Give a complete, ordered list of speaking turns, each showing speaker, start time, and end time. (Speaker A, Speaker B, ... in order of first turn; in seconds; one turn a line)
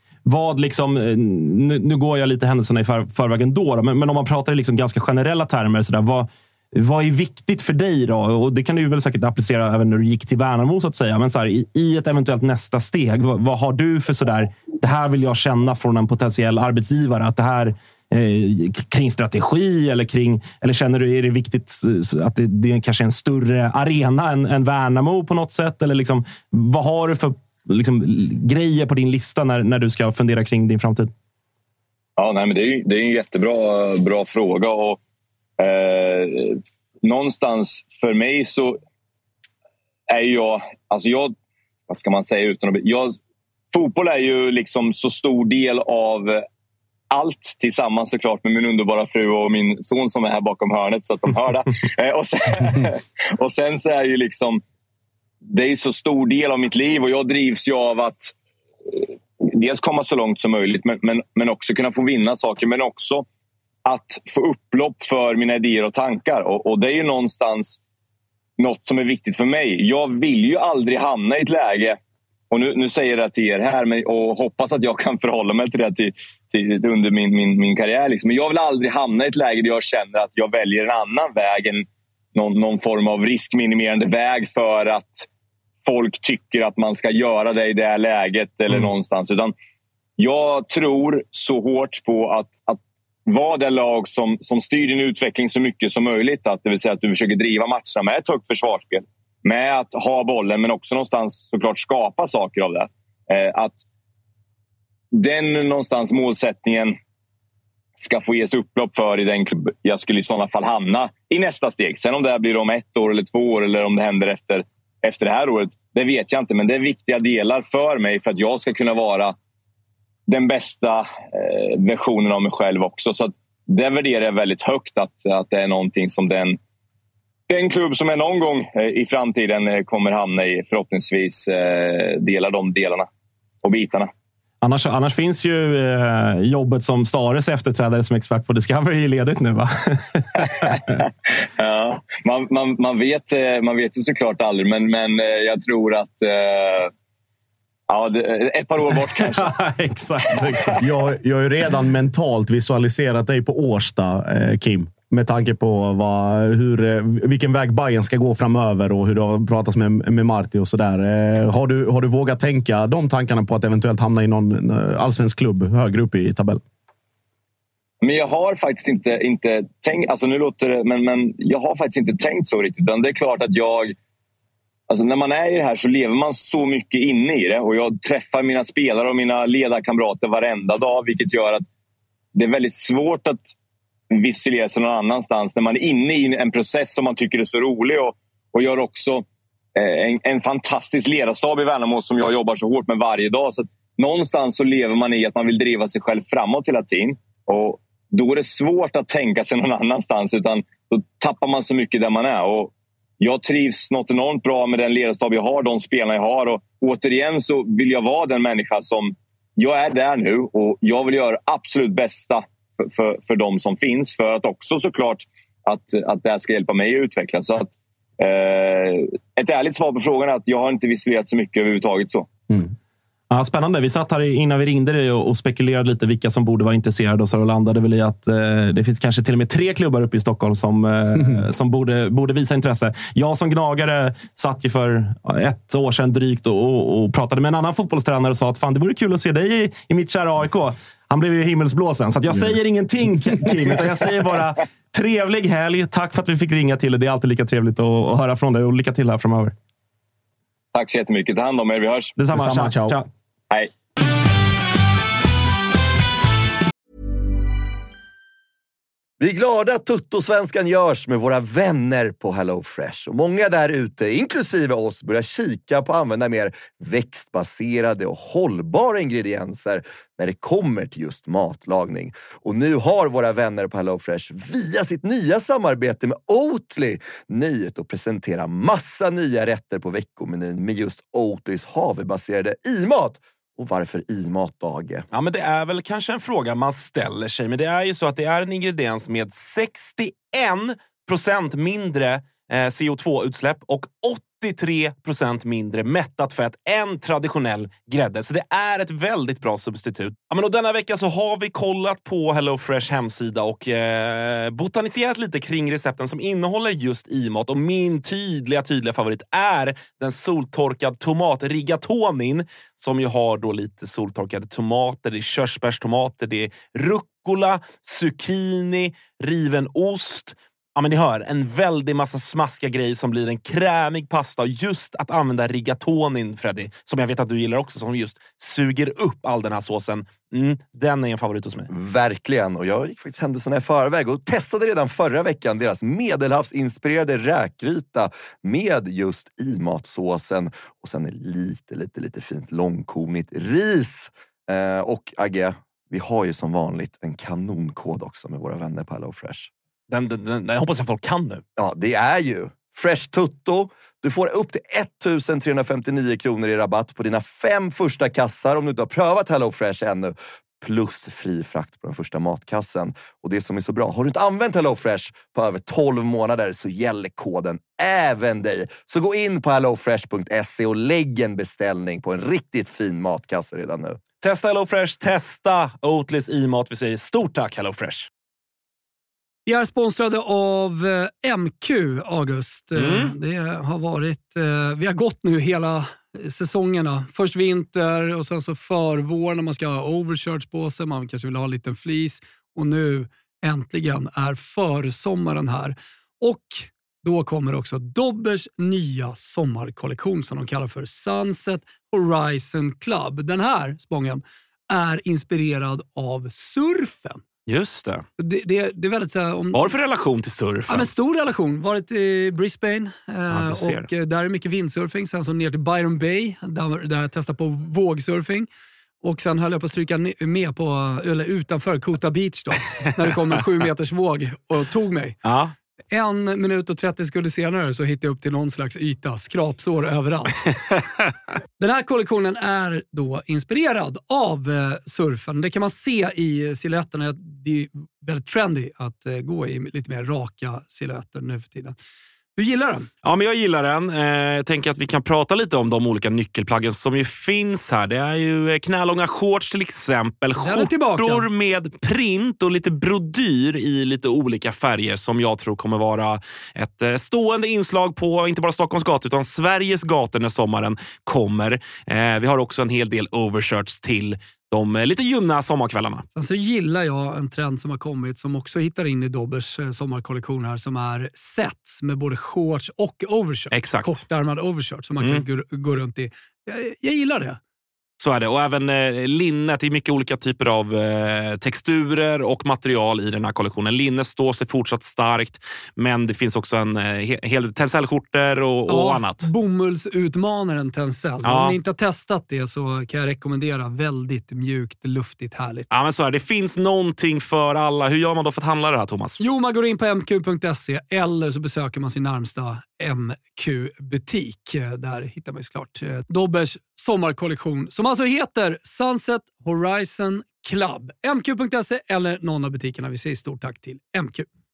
Speaker A: 0.3-31.1
Speaker B: 32.2-35.0
Speaker B: 35.6-38.8
Speaker B: 40.1-41.3
Speaker B: 41.9-43.2
Speaker B: 43.7-46.4
Speaker B: 47.1-54.6
Speaker B: 55.5-58.3
Speaker B: 58.9-63.2
Speaker B: 63.9-67.8
Speaker B: 68.6-72.0
Speaker B: 72.5-85.3
Speaker B: 85.8-89.5
Speaker B: 90.2-103.8
Speaker B: 105.1-107.0
Speaker B: 108.0-119.3
Speaker B: 120.3-126.6
Speaker B: 127.5-133.1
Speaker B: 133.6-134.1
Speaker A: 134.6-140.7
Speaker B: 141.6-146.9
Speaker B: 147.9-149.6
Speaker A: 149.3-150.8
Speaker B: 150.5-150.8
Speaker C: 150.8-166.6
Speaker B: 168.0-173.9
Speaker B: 174.9-181.6
Speaker B: 182.3-183.4
Speaker B: 184.1-189.2
Speaker B: 189.8-222.3
Speaker A: 223.3-249.5
Speaker C: 242.3-242.6
Speaker C: 243.4-243.7
Speaker B: 250.7-252.1
Speaker A: 252.2-253.1
Speaker C: 252.3-253.0
Speaker D: 259.2-285.1
Speaker A: 285.1-331.7
Speaker D: 331.7-349.5
Speaker A: 349.9-351.4
Speaker D: 351.6-374.0
Speaker A: 374.2-378.1
Speaker E: 379.5-407.2
Speaker A: 382.8-383.1
Speaker A: 407.5-408.0
Speaker E: 408.2-409.7
Speaker A: 409.5-410.9
Speaker E: 410.7-418.5
Speaker A: 413.3-413.9
Speaker E: 419.0-425.2
Speaker A: 425.2-425.5
Speaker E: 425.9-430.4
Speaker E: 431.6-441.8
Speaker E: 442.4-442.9
Speaker A: 443.0-466.0
Speaker E: 450.4-451.3
Speaker E: 466.1-477.4
Speaker A: 473.5-474.0
Speaker A: 475.0-475.2
Speaker A: 478.0-489.3
Speaker E: 488.7-495.7
Speaker A: 491.2-491.6
Speaker A: 495.7-499.2
Speaker E: 499.2-514.3